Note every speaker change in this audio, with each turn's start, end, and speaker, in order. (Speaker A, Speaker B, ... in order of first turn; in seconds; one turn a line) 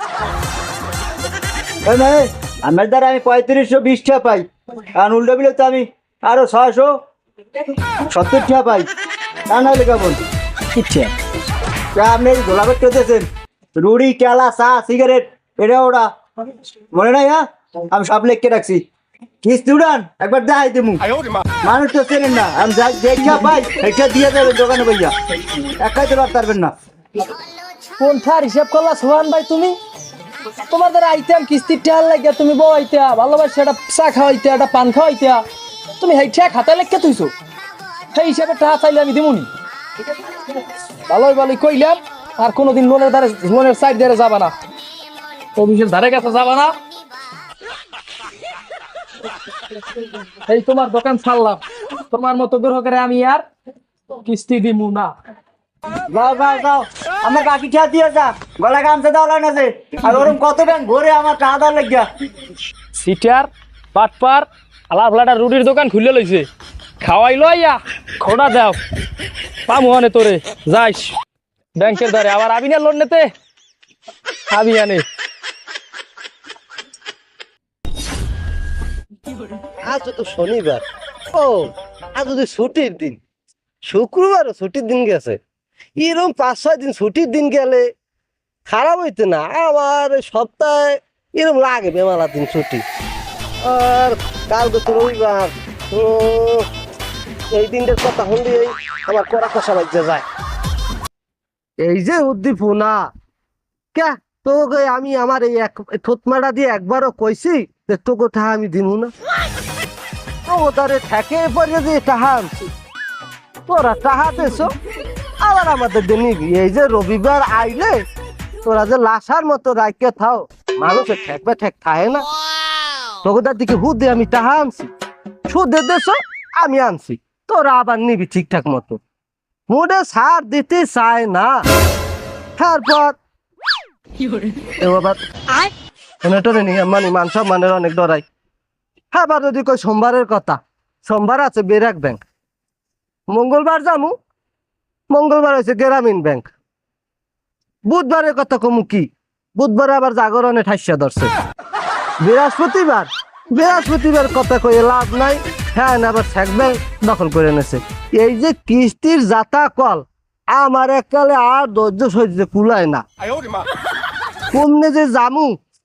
Speaker A: 1.9-7.0
Speaker A: 8.1-8.9
Speaker A: 9.5-10.2
Speaker B: 10.8-11.1
Speaker A: 11.9-16.1
Speaker A: 16.9-18.9
Speaker A: 19.4-21.1
Speaker A: 21.6-25.1
Speaker A: 25.8-26.7
Speaker B: 28.0-29.8
Speaker B: 30.7-35.4
Speaker B: 36.0-37.3
Speaker B: 38.1-39.5
Speaker B: 41.1-44.5
Speaker B: 45.6-46.8
Speaker B: 50.5-53.5
Speaker B: 54.2-55.1
Speaker A: 56.1-62.1
Speaker B: 63.0-66.5
Speaker B: 67.0-68.8
Speaker B: 69.7-71.2
Speaker B: 71.8-73.3
Speaker B: 74.5-75.0
Speaker C: 79.9-83.2
Speaker C: 83.8-85.4
Speaker C: 86.0-87.9
Speaker C: 88.7-92.8
Speaker C: 93.6-96.7
Speaker C: 97.5-100.3
Speaker C: 101.8-103.1
Speaker C: 103.9-109.1
Speaker C: 110.5-112.5
Speaker C: 113.7-114.8
Speaker C: 115.4-118.0
Speaker C: 118.6-122.3
Speaker C: 123.2-124.9
Speaker C: 125.5-129.0
Speaker C: 129.7-131.6
Speaker C: 132.6-133.2
Speaker C: 134.8-135.2
Speaker C: 136.2-138.2
Speaker C: 139.1-142.2
Speaker C: 143.3-144.2
Speaker C: 145.1-146.5
Speaker C: 147.9-151.3
Speaker C: 152.2-163.1
Speaker C: 164.5-165.6